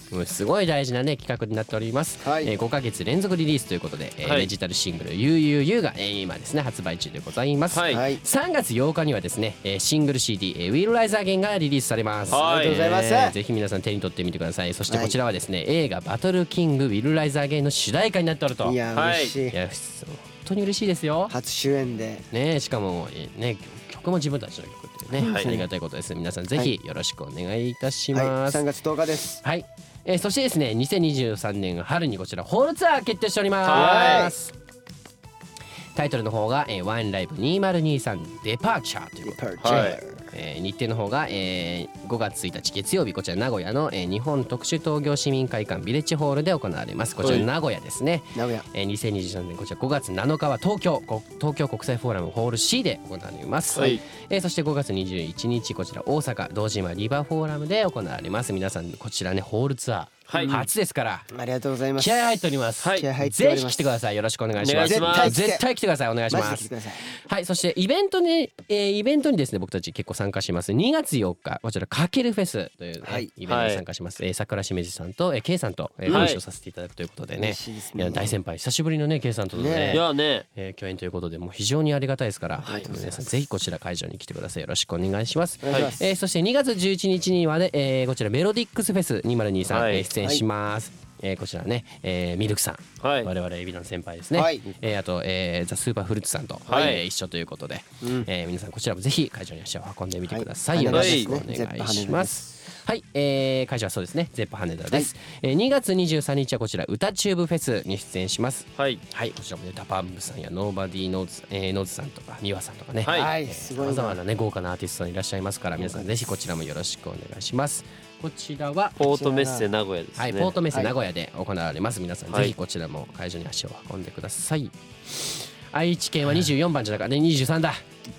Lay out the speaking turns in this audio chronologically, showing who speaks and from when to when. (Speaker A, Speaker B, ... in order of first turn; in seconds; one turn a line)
Speaker A: 0.1-18.8
Speaker B: 2.2-2.5
Speaker C: 4.2-4.5
Speaker C: 7.7-8.1
Speaker B: 7.9-8.2
Speaker C: 12.3-12.8
Speaker B: 12.3-13.4
Speaker B: 14.9-15.2
Speaker B: 18.6-19.6
Speaker C: 18.9-19.4
Speaker A: 19.5-21.4
Speaker B: 21.3-22.3
Speaker A: 22.3-28.6
Speaker B: 25.1-25.7
Speaker C: 25.2-25.6
Speaker B: 28.1-29.4
Speaker A: 29.4-34.5
Speaker C: 33.6-34.3
Speaker B: 33.7-34.4
Speaker A: 36.0-61.3
Speaker B: 39.2-40.3
Speaker C: 39.6-40.0
Speaker C: 47.2-47.5
Speaker B: 48.4-48.6
Speaker C: 53.7-54.0
Speaker C: 60.3-60.6
Speaker B: 60.3-60.6
Speaker B: 61.3-64.0
Speaker A: 62.0-119.0
Speaker C: 62.8-63.1
Speaker C: 64.6-65.4
Speaker B: 64.8-65.7
Speaker B: 66.3-67.0
Speaker B: 73.0-73.3
Speaker C: 73.5-73.8
Speaker C: 76.1-76.4
Speaker B: 77.4-78.4
Speaker B: 79.5-80.0
Speaker C: 79.9-80.5
Speaker B: 82.6-83.5
Speaker B: 85.6-86.1
Speaker C: 89.7-90.1
Speaker B: 90.2-90.4
Speaker C: 93.0-93.3
Speaker B: 94.3-94.7
Speaker C: 96.7-97.0
Speaker B: 96.7-96.9
Speaker B: 98.0-98.3
Speaker B: 100.3-102.5
Speaker C: 100.9-101.4
Speaker C: 108.8-109.0
Speaker C: 113.0-113.3
Speaker B: 113.1-114.2
Speaker B: 115.8-116.1
Speaker C: 119.0-120.6
Speaker B: 119.0-119.7
Speaker A: 120.2-127.8